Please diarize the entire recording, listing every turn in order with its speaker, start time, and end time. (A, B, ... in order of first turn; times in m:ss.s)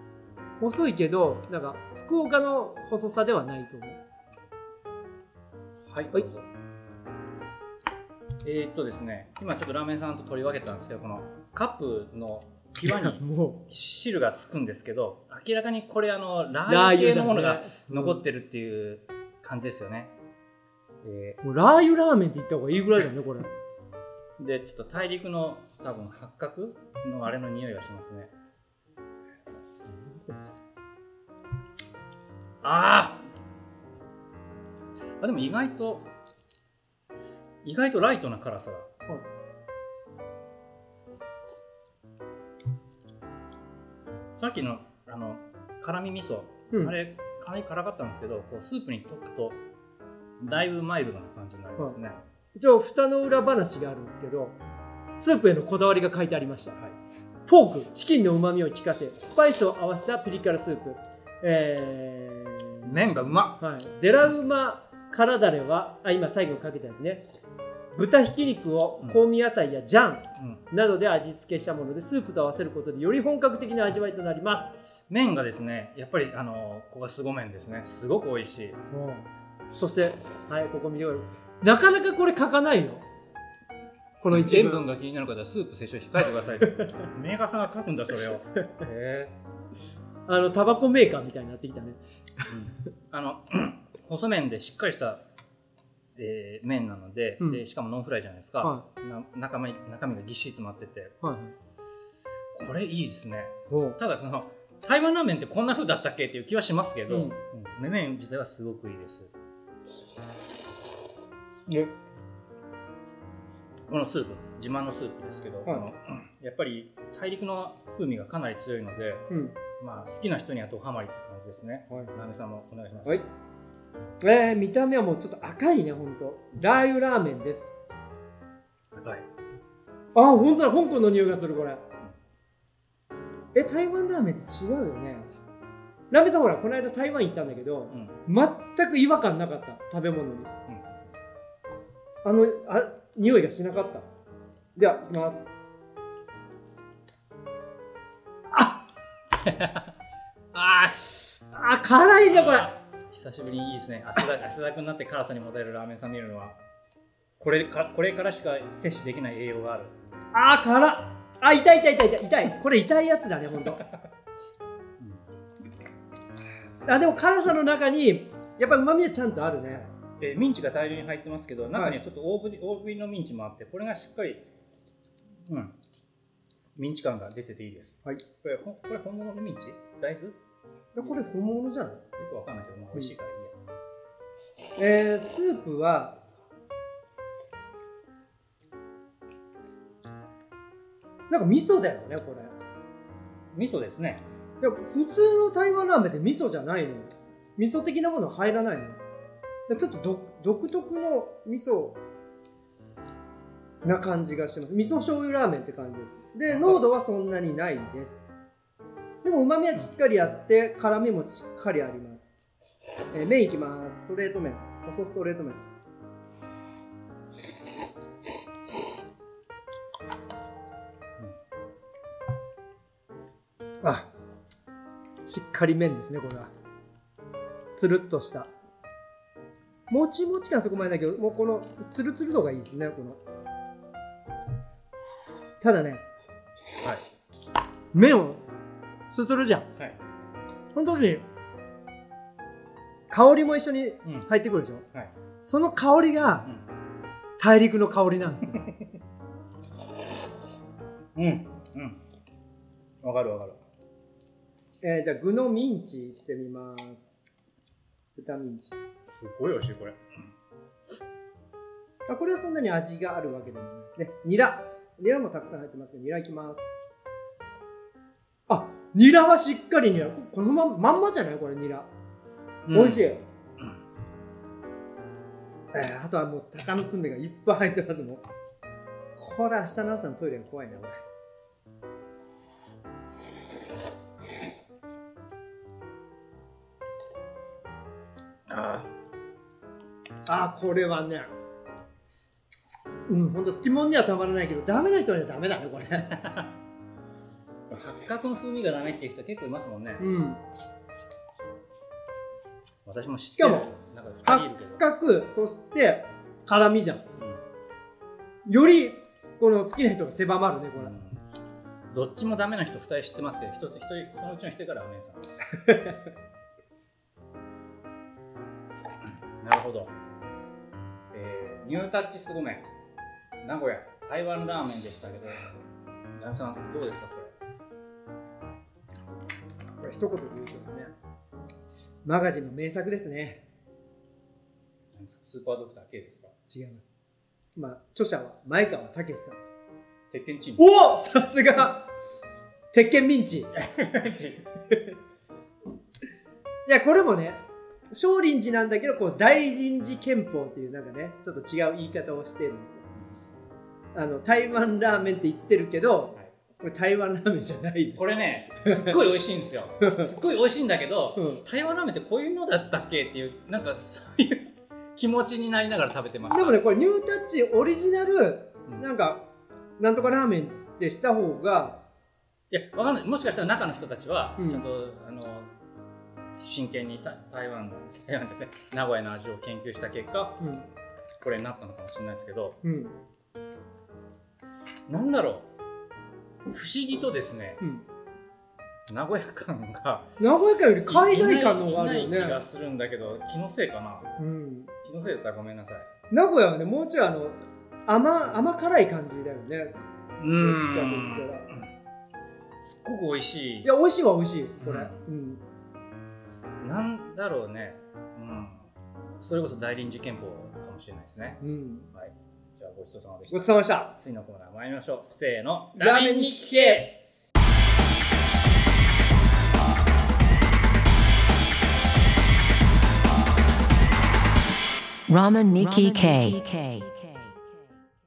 0:00.6-0:04.0 A
0:05.9-0:06.5 B
0:08.4-0:20.1 B
0:12.8-0:13.6 A
0:16.7-0:18.2 A
0:21.0-0:21.4 B
0:21.4-0:23.5 A
0:24.4-0:28.3 B
0:32.6-0:33.2 B
0:35.2-0:36.1 B
0:37.6-0:38.9 B
0:44.4-0:49.6 B
0:50.4-0:52.2 B
0:52.6-0:54.6 A
0:55.2-0:56.8 A
0:57.5-1:03.1 A
1:02.8-1:03.6 B
1:03.6-1:07.2 A
1:07.9-1:14.7 A
1:10.4-1:10.6 B
1:15.1-1:18.8 B
1:18.9-1:23.0 A
1:24.2-1:24.8 A
1:24.3-1:29.4 B
1:26.6-1:27.1 A
1:30.3-1:32.5 A
1:32.5-1:35.2 B
1:36.2-1:41.2 B
1:38.6-1:38.9 A
1:41.2-1:41.5 A
1:42.5-1:49.3 B
1:43.7-1:44.0 A
1:47.1-1:47.4 A
1:53.9-1:59.3 B
1:59.3-1:59.6 A
1:59.8-2:03.2 B
2:04.2-2:07.8 A
2:08.9-2:09.3 B
2:10.2-2:11.8 A
2:13.5-2:15.3 A
2:16.1-2:20.5 A
2:17.9-2:18.2 B
2:20.7-2:21.1 B
2:22.2-2:24.1 A
2:24.8-2:25.5 A
2:29.4-2:29.9 B
2:30.5-2:31.1 B
2:31.5-2:32.7 A
2:32.3-2:36.6 B
2:37.4-2:39.9 B
2:40.3-2:43.8 A
2:45.0-2:45.3 B
2:46.9-2:49.9 A
2:50.2-2:54.4 B
2:55.5-2:55.8 B
2:56.8-3:00.4 B
3:01.0-3:02.0 A
3:02.2-3:03.5 B
3:04.8-3:06.2 A
3:11.3-3:12.6 A
3:13.5-3:14.2 B
3:14.6-3:19.0 A
3:19.7-3:22.0 A
3:23.8-3:28.3 A
3:26.5-3:26.8 B
3:29.2-3:32.4 A
3:33.1-3:35.6 A
3:43.8-3:44.1 A
3:45.3-3:46.5 A
3:47.8-3:48.5 A
3:49.9-3:53.2 A
3:55.6-3:56.0 A
3:57.9-3:58.4 A
3:59.1-3:59.7 A
4:00.8-4:01.2 A
4:03.1-4:04.8 A
4:05.4-4:06.5 A
4:07.4-4:08.6 A
4:08.5-4:08.9 B
4:11.2-4:12.0 B
4:13.0-4:13.6 B
4:14.8-4:17.2 A
4:18.2-4:18.8 A
4:19.2-4:20.3 B
4:22.1-4:26.6 A
4:28.5-4:31.9 A
4:32.7-4:33.8 B
4:32.7-4:33.2 A
4:35.7-4:38.2 A
4:39.2-4:41.0 A
4:48.5-4:48.9 B
4:50.3-4:51.3 A
4:53.1-4:56.2 A
4:56.1-4:56.5 B
4:57.7-5:00.0 B
5:00.0-5:00.4 A
5:02.8-5:04.8 B
5:03.3-5:03.7 A
5:04.2-5:07.0 A
5:08.5-5:11.0 A
5:10.8-5:11.2 B
5:11.9-5:15.9 B
5:19.0-5:19.9 B
5:21.1-5:22.7 B
5:23.4-5:25.5 B
5:26.2-5:27.4 B
5:29.8-5:30.9 A
5:32.0-5:33.4 A
5:34.9-5:36.3 B
5:36.5-5:36.9 A
5:37.6-5:39.6 A
5:40.1-5:40.7 B
5:40.6-5:41.9 A
5:42.7-5:43.5 A
5:43.6-5:44.4 B
5:46.7-5:52.8 A
5:53.9-5:58.1 A
5:58.0-6:06.6 B
5:58.6-5:59.0 A
5:59.8-6:00.1 A
6:01.2-6:01.4 A
6:06.3-6:09.2 A
6:09.8-6:11.8 A
6:12.5-6:15.5 B
6:14.4-6:14.6 A
6:16.4-6:20.4 B
6:20.4-6:20.7 A
6:21.2-6:22.6 B
6:22.6-6:23.0 A
6:24.9-6:25.5 B
6:26.5-6:27.6 B
6:28.9-6:30.1 B
6:30.2-6:32.4 A
6:30.9-6:34.2 B
6:34.2-6:34.7 A
6:34.8-6:35.9 B
6:36.1-6:39.8 A
6:40.2-6:41.7 B
6:40.4-6:41.5 A
6:42.6-6:43.7 B
6:43.6-6:45.4 A
6:44.6-6:45.0 B
6:46.6-6:48.7 B
6:49.2-6:51.4 B
6:51.4-6:51.9 A
6:51.9-6:57.0 B
6:53.3-6:53.9 A
6:55.8-6:56.9 A
7:05.1-7:07.4 C